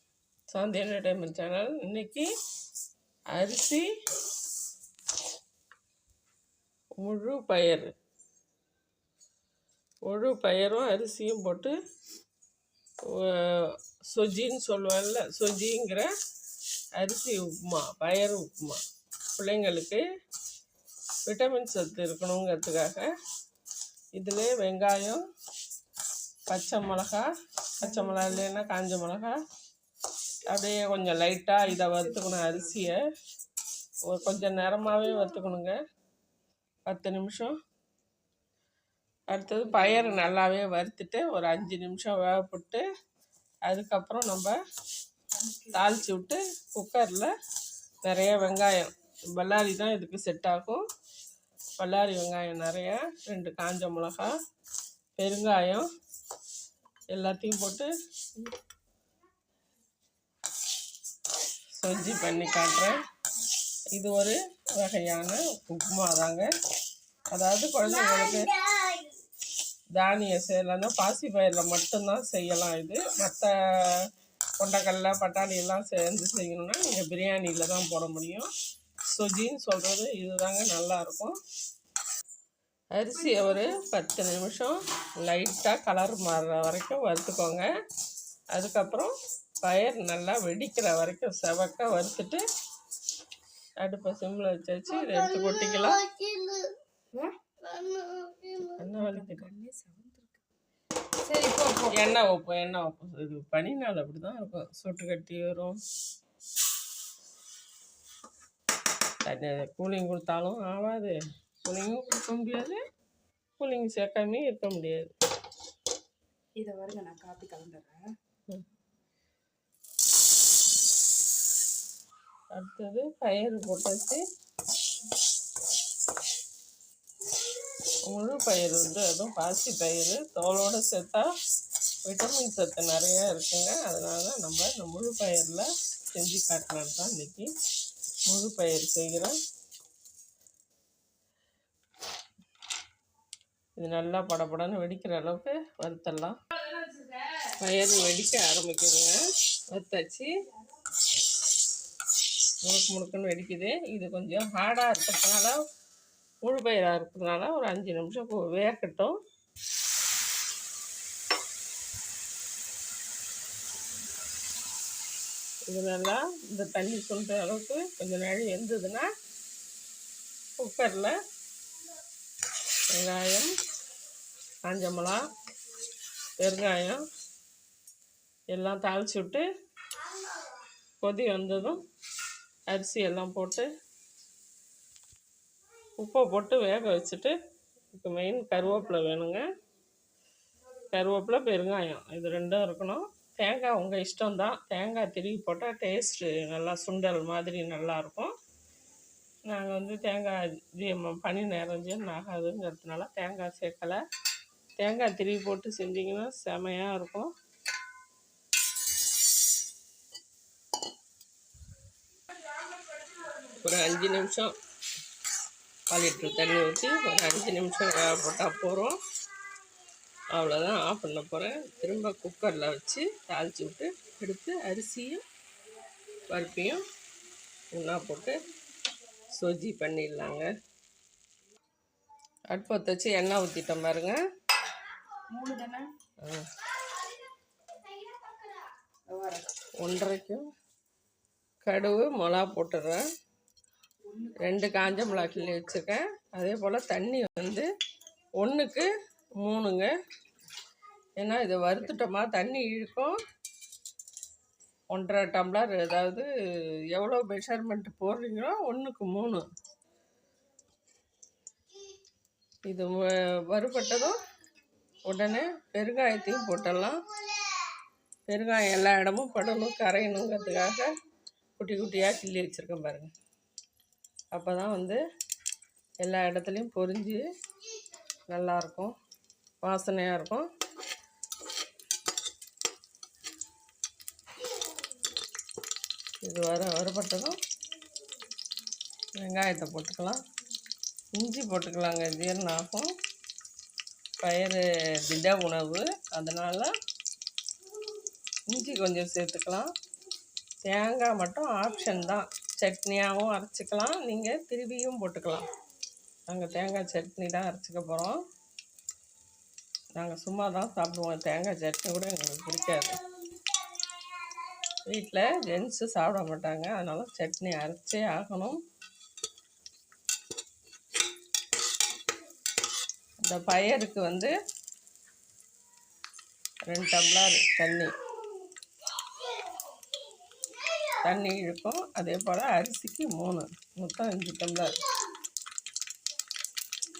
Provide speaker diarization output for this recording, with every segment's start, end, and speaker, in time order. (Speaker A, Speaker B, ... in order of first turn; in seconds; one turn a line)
Speaker A: 0.5-2.3
Speaker A: 3.3-3.9
Speaker A: 7.0-7.9
Speaker A: 10.1-11.7
Speaker A: 13.0-16.1
Speaker A: 17.0-18.8
Speaker A: 19.4-20.0
Speaker A: 21.3-23.1
Speaker A: 24.2-25.2
Speaker A: 26.5-29.4
Speaker A: 30.5-33.0
Speaker B: 31.9-32.8
Speaker A: 34.0-35.8
Speaker A: 36.9-37.5
Speaker A: 39.3-42.8
Speaker A: 43.7-44.5
Speaker B: 45.4-45.7
Speaker A: 45.7-47.3
Speaker A: 48.0-50.8
Speaker A: 51.8-54.3
Speaker A: 55.2-55.8
Speaker A: 57.1-57.9
Speaker A: 61.8-63.0
Speaker A: 63.9-66.5
Speaker A: 67.3-68.6
Speaker A: 69.9-74.0
Speaker A: 74.6-78.5
Speaker A: 79.1-81.3
Speaker A: 82.9-87.7
Speaker A: 88.5-92.4
Speaker A: 93.8-96.2
Speaker B: 97.1-100.4
Speaker A: 98.8-99.5
Speaker B: 101.2-101.9
Speaker A: 101.9-105.8
Speaker A: 109.2-112.8
Speaker A: 113.6-115.1
Speaker B: 116.6-118.1
Speaker A: 122.5-124.2
Speaker A: 128.1-131.3
Speaker A: 132.0-137.5
Speaker A: 138.3-139.3
Speaker A: 143.8-146.4
Speaker A: 147.4-149.2
Speaker A: 149.7-150.3
Speaker A: 152.6-155.5
Speaker A: 156.4-159.2
Speaker A: 165.7-169.1
Speaker A: 170.6-171.1
Speaker A: 172.9-173.5
Speaker A: 174.6-175.2
Speaker A: 176.4-177.0
Speaker A: 178.5-179.4
Speaker A: 181.0-181.8
Speaker A: 182.7-183.7
Speaker A: 186.0-187.3
Speaker A: 187.9-189.4
Speaker A: 190.9-198.3
Speaker A: 199.5-204.0
Speaker A: 204.8-207.3
Speaker A: 213.4-214.5
Speaker A: 215.9-219.0
Speaker A: 220.3-225.2
Speaker A: 226.3-226.8
Speaker A: 227.7-228.4
Speaker A: 229.3-230.5
Speaker A: 232.5-234.2
Speaker B: 235.3-235.9
Speaker A: 236.2-236.5
Speaker B: 239.1-239.5
Speaker A: 239.8-240.4
Speaker A: 241.6-243.0
Speaker B: 244.1-245.6
Speaker A: 244.4-247.7
Speaker A: 248.4-248.9
Speaker A: 249.4-249.9
Speaker A: 251.2-253.2
Speaker A: 254.9-256.3
Speaker A: 256.9-259.4
Speaker A: 262.7-264.2
Speaker A: 265.0-267.0
Speaker A: 268.3-270.9
Speaker A: 271.6-273.1
Speaker A: 274.3-275.0
Speaker A: 276.0-277.2
Speaker A: 278.3-278.9
Speaker A: 279.6-280.5
Speaker A: 286.2-287.4
Speaker A: 289.2-290.2
Speaker A: 291.1-292.9
Speaker A: 294.2-296.7
Speaker A: 298.5-299.7
Speaker A: 300.6-305.5
Speaker A: 306.3-308.2
Speaker A: 310.0-312.9
Speaker A: 314.9-318.6
Speaker A: 323.2-324.3
Speaker A: 326.7-327.9
Speaker A: 331.0-334.8